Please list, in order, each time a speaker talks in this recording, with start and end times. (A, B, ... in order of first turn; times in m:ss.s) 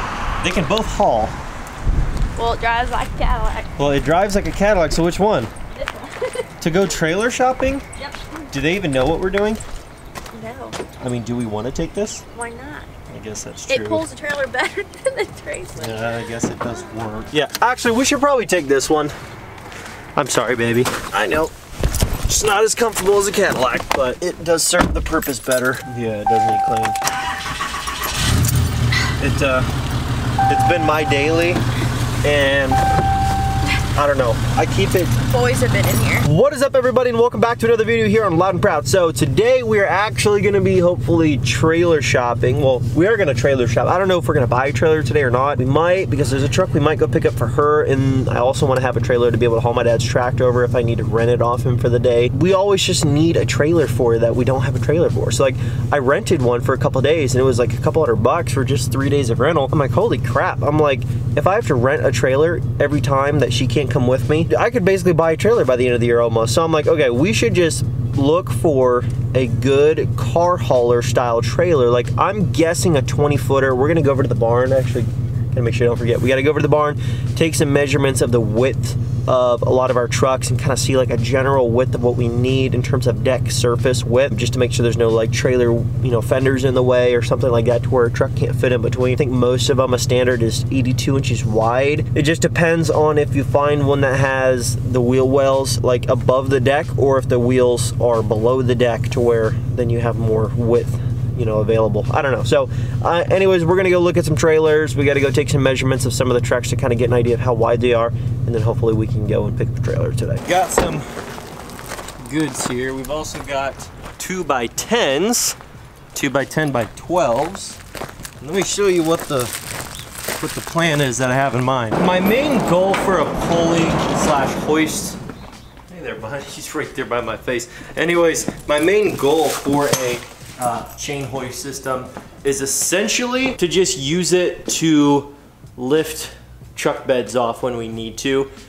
0:00.4-0:01.3 A
0:02.4-0:03.7 B
0:03.8-0:05.5 A
0:05.8-0:06.4 B
0:06.6-0:07.8 A
0:08.5-0:09.6 A
0:10.3-0:10.8 B
0:11.0-0:12.2 A
0:12.3-0:12.9 B
0:13.1-0:14.0 A
0:13.7-0:16.2 B
0:15.8-0:19.1 A
0:20.2-0:21.5 A
0:22.3-0:27.0 A
0:29.2-0:29.7 A
0:30.4-0:31.6 A
0:32.2-0:32.8 A
0:33.9-0:35.2 A
0:35.2-0:36.2 B
0:36.2-1:51.0 A
1:52.2-1:55.6 A
1:56.1-1:57.8 A
1:58.4-1:59.5 A
2:00.4-2:05.2 A
2:05.9-2:18.5 A